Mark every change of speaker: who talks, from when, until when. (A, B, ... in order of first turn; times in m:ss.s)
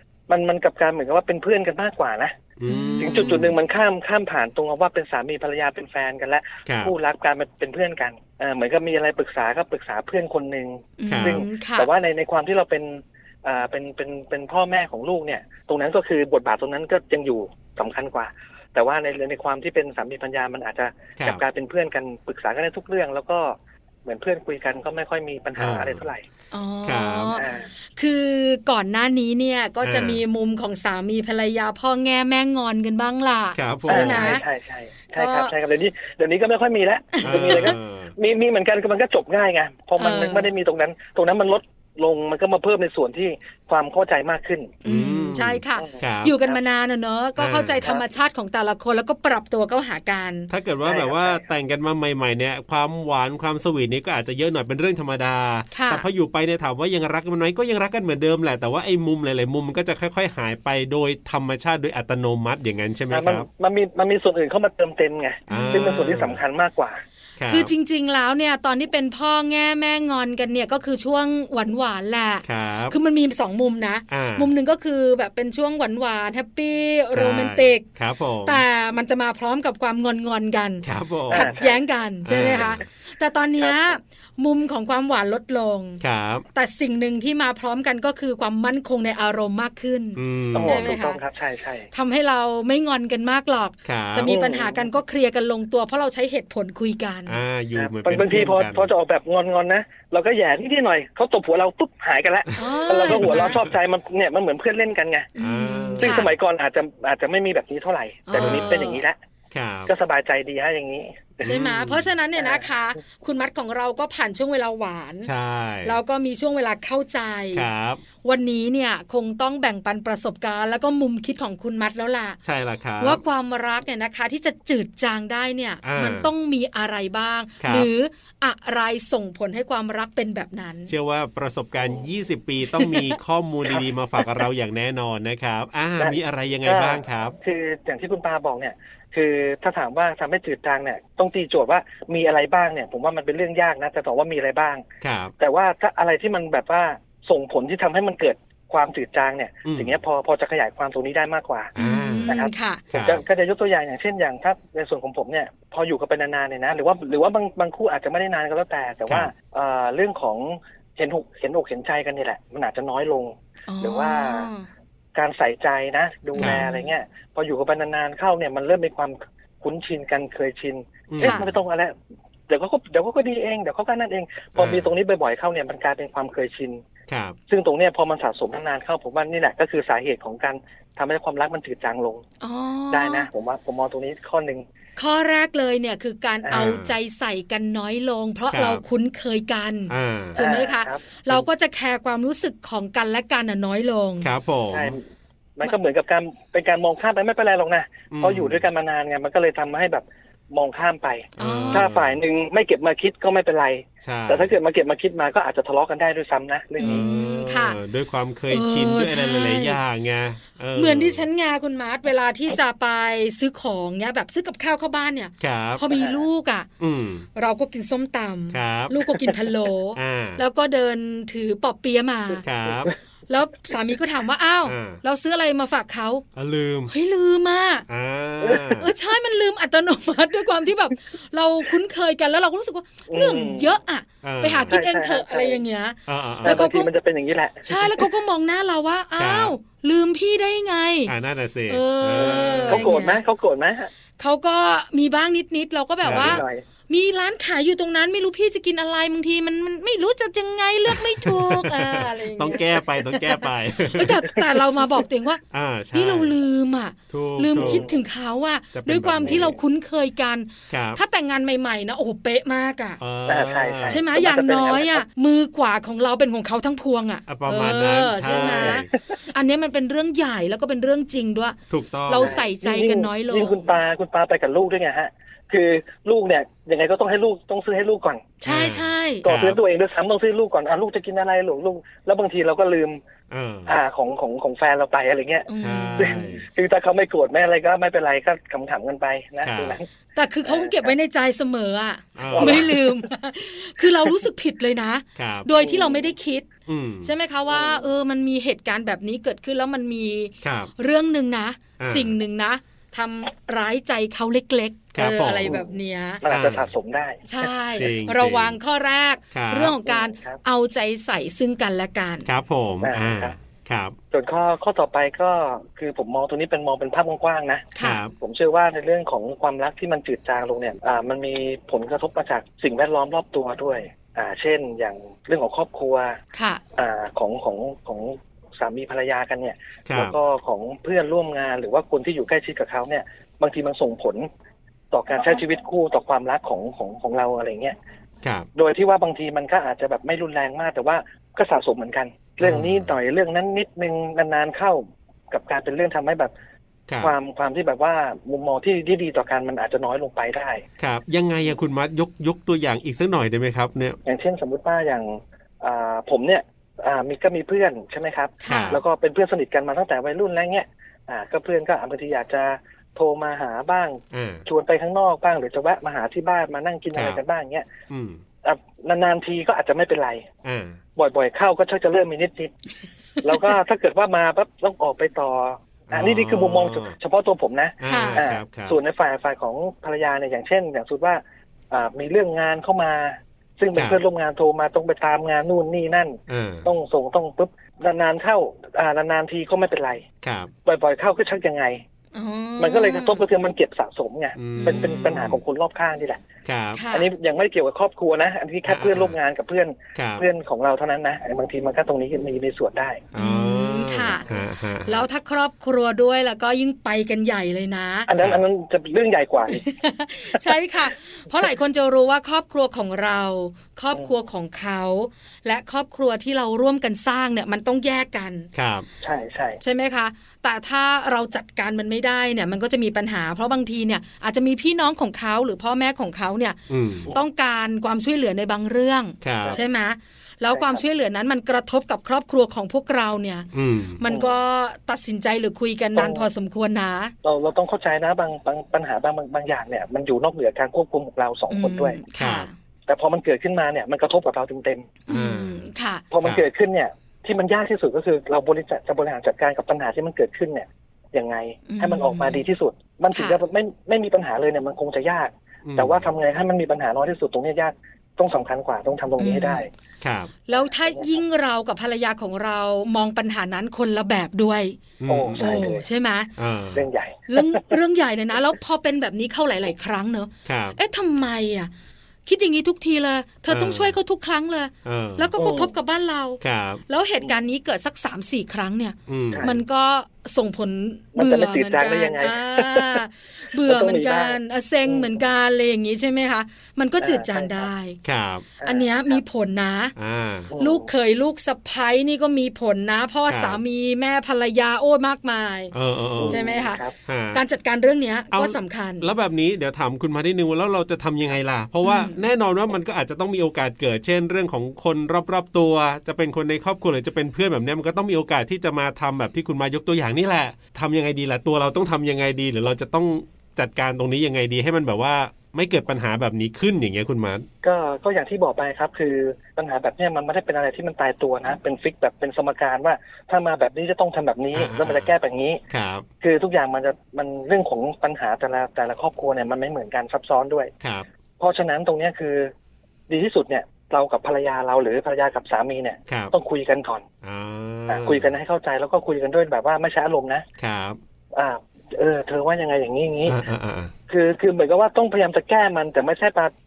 0:00.3-0:02.3 A
0:02.6-0:03.5 B
0:02.6-0:03.5 C
0:03.0-0:26.2 A
0:06.6-0:06.9 B
0:11.0-0:11.9 C
0:11.1-0:11.4 B
0:25.6-0:26.1 B
0:26.5-0:34.4 C
0:26.8-0:27.4 B
0:27.4-0:27.7 A
0:29.8-0:30.2 B
0:33.6-0:34.3 B
0:33.9-0:44.8 A
0:35.1-0:35.5 C
0:37.1-0:37.7 C
0:37.2-0:38.1 B
0:40.0-0:40.5 C
0:44.8-0:50.5 C
0:44.8-0:46.3 B
0:45.8-0:46.6 A
0:47.4-0:47.8 B
0:50.5-1:03.5 B
0:50.8-0:51.4 A
0:55.7-0:56.0 C
1:03.1-1:07.0 A
1:05.5-1:06.0 C
1:05.5-1:06.4 B
1:07.4-1:07.7 B
1:07.5-1:17.8 C
1:12.4-1:13.0 B
1:14.1-1:14.5 B
1:17.1-1:18.6 B
1:18.4-1:26.0 C
1:20.8-1:21.5 B
1:21.3-1:21.8 A
1:22.2-1:22.8 B
1:23.6-1:23.9 A
1:26.0-1:26.4 B
1:26.5-1:31.2 C
1:30.2-1:30.9 B
1:30.5-1:31.9 A
1:31.9-1:37.4 C
1:33.8-1:34.3 B
1:34.3-1:34.9 A
1:37.3-1:38.9 B
1:37.8-1:45.3 A
1:42.6-1:43.6 C
1:43.1-1:43.6 B
1:45.4-1:46.3 C
1:45.4-1:46.3 B
1:46.0-1:49.2 A
1:48.3-1:49.0 C
1:48.3-1:48.9 B
1:49.5-1:49.9 B
1:49.9-1:51.6 A
1:51.4-1:52.0 B
1:51.4-1:55.3 C
1:52.4-1:52.6 A
1:55.2-1:56.0 B
1:55.8-1:57.6 C
1:57.5-1:58.0 B
1:58.2-2:02.4 C
2:02.4-2:03.2 B
2:03.0-2:10.9 C
2:05.8-2:06.3 B
2:07.6-2:07.9 B
2:10.9-2:17.4 B
2:12.7-2:13.2 C
2:16.0-2:24.8 A
2:25.0-2:25.3 B
2:25.4-2:31.7 A
2:29.6-2:30.0 B
2:31.8-2:32.4 B
2:31.8-2:32.8 C
2:32.3-2:44.5 A
2:32.9-2:33.2 B
2:43.7-2:44.7 C
2:45.1-2:51.9 A
2:46.3-2:46.9 C
2:46.4-2:46.6 B
2:51.1-2:51.6 B
2:51.2-2:51.4 C
2:52.5-2:56.8 A
2:54.6-2:54.9 B
2:57.1-2:57.4 B
2:57.5-3:02.2 A
3:02.4-3:03.3 C
3:02.9-3:04.6 A
3:05.0-3:14.3 C
3:06.5-3:06.9 B
3:08.5-3:08.8 B
3:09.9-3:10.4 B
3:10.4-3:11.1 A
3:14.2-3:15.0 B
3:14.7-3:15.0 A
3:15.6-3:27.0 A
3:18.1-3:18.6 B
3:21.4-3:22.2 B
3:21.4-3:21.9 C
3:24.0-3:24.5 B
3:26.8-3:27.8 C
3:26.8-3:31.2 B
3:28.5-3:29.8 C
3:30.7-3:36.7 C
3:35.4-3:35.8 B
3:35.9-3:36.2 A
3:36.8-3:37.2 B
3:37.3-3:42.4 C
3:38.5-3:39.0 B
3:39.9-3:40.4 B
3:42.4-3:42.9 B
3:43.3-3:46.2 C
3:44.6-3:45.0 B
3:46.4-3:46.9 B
3:46.9-3:47.8 C
3:47.9-3:48.9 B
3:48.4-3:48.8 A
3:48.8-3:56.9 C
3:53.1-3:53.8 A
3:54.2-3:54.8 B
3:54.7-3:55.6 A
3:56.1-3:56.6 B
3:56.4-3:58.1 A
3:57.6-4:01.1 C
3:59.2-3:59.5 B
4:01.1-4:02.9 B
4:01.7-4:03.2 C
4:02.2-4:03.9 A
4:04.2-4:15.4 C
4:06.0-4:06.4 B
4:06.0-4:06.6 A
4:10.9-4:14.3 B
4:15.5-4:16.3 B
4:15.9-4:23.0 C
4:17.1-4:17.8 B
4:17.6-4:17.9 A
4:18.7-4:19.6 B
4:20.7-4:21.0 B
4:23.0-4:24.0 B
4:23.2-4:25.0 A
4:23.9-4:33.7 C
4:27.3-4:28.9 B
4:28.6-4:28.9 A
4:31.7-4:32.4 B
4:32.2-4:38.3 A
4:38.4-4:39.2 C
4:38.4-4:39.6 B
4:39.2-4:43.0 A
4:43.3-4:43.8 B
4:43.6-4:49.8 A
4:45.5-4:46.4 C
4:45.6-4:46.4 B
4:49.4-4:49.8 B
4:50.2-4:56.5 C
4:50.4-4:50.9 A
4:52.2-4:52.7 B
4:52.3-4:53.0 A
4:55.2-4:55.5 B
4:55.6-4:56.1 A
4:56.7-4:57.1 B
4:57.0-5:06.2 C
4:57.5-4:57.9 A
5:00.4-5:00.7 B
5:01.8-5:02.2 B
5:04.9-5:05.6 B
5:06.2-5:07.3 A
5:06.2-5:06.7 B
5:07.2-5:12.3 C
5:07.8-5:08.6 B
5:09.3-5:09.8 B
5:09.8-5:10.4 A
5:12.2-5:14.0 B
5:12.8-5:13.3 A
5:14.1-5:26.2 A
5:17.8-5:18.0 C
5:17.8-5:18.1 B
5:26.3-5:26.6 C
5:26.8-5:34.3 A
5:29.9-5:30.2 B
5:34.9-5:37.8 A
5:38.6-5:46.3 A
5:42.4-5:42.9 B
5:46.9-5:47.1 B
5:47.0-5:50.6 A
5:50.8-5:54.0 B
5:54.0-6:07.7 A
5:58.4-5:58.8 C
5:58.5-5:58.8 B
6:04.1-6:04.4 B
6:06.9-6:07.2 B
6:07.9-6:08.2 B
6:08.4-6:10.3 A
6:10.4-6:10.8 B
6:11.0-6:12.5 A
6:13.2-6:30.0 A
6:15.9-6:17.0 B
6:17.8-6:18.8 B
6:17.8-6:18.2 C
6:23.7-6:24.0 B
6:26.3-6:26.7 B
6:30.2-6:30.5 B
6:30.6-6:31.8 A
6:32.1-6:33.2 C
6:32.6-6:36.2 A
6:34.4-6:35.4 B
6:34.6-6:34.9 C
6:36.4-6:36.8 B
6:36.7-6:37.1 C
6:36.9-6:43.1 A
6:38.6-6:39.2 B
6:39.9-6:40.2 B
6:43.1-6:45.0 B
6:43.2-6:44.2 C
6:44.8-6:48.1 C
6:48.1-6:49.6 A
6:49.5-6:58.5 C
6:58.5-6:58.9 B
6:59.0-6:59.6 A
6:59.6-7:17.1 C
7:06.7-7:07.1 B
7:09.2-7:09.6 B
7:10.5-7:10.8 A
7:13.5-7:14.0 B
7:16.0-7:16.3 A
7:17.2-7:22.0 A
7:21.5-7:22.5 C
7:22.2-7:22.5 B
7:22.9-7:24.9 A
7:25.1-7:26.0 C
7:25.1-7:25.6 B
7:26.1-7:39.7 A
7:31.7-7:32.4 C
7:33.1-7:33.4 C
7:35.6-7:36.0 B
7:39.2-7:39.6 C
7:40.0-7:40.3 B
7:40.5-7:44.8 C
7:40.5-7:41.1 A
7:45.0-7:45.6 B
7:45.1-7:45.8 A
7:45.4-7:46.3 C
7:46.4-7:46.9 B
7:46.7-7:47.7 A
7:47.3-7:51.7 C
7:50.4-7:50.8 B
7:52.2-8:08.0 C
7:53.5-7:54.0 B
7:54.8-7:55.3 B
7:55.4-7:55.7 A
7:56.4-7:56.8 B
7:59.1-7:59.4 B
7:59.3-7:59.6 A
8:01.2-8:03.0 A
8:03.6-8:05.2 A
8:07.0-8:07.7 A
8:08.0-8:08.5 B
8:08.6-8:09.2 A
8:08.6-8:09.9 C
8:10.0-8:10.5 B
8:10.5-8:10.9 A
8:10.6-8:15.7 C
8:13.3-8:13.6 B
8:15.7-8:16.4 B
8:16.2-8:16.9 A
8:16.2-8:16.8 C
8:17.0-8:17.4 B
8:17.3-8:19.1 C
8:18.3-8:37.5 B
8:21.8-8:22.2 C
8:37.6-8:45.6 A
8:44.5-8:45.1 B
8:45.7-8:46.0 B
8:46.2-8:50.7 A
8:50.8-8:51.1 B
8:51.4-8:52.5 A
8:53.1-8:57.0 A
8:56.1-8:56.3 B
8:57.2-8:58.3 B
8:57.9-9:00.4 A
9:00.6-9:01.0 B
9:01.3-9:03.4 A
9:03.2-9:03.9 B
9:04.1-9:06.5 A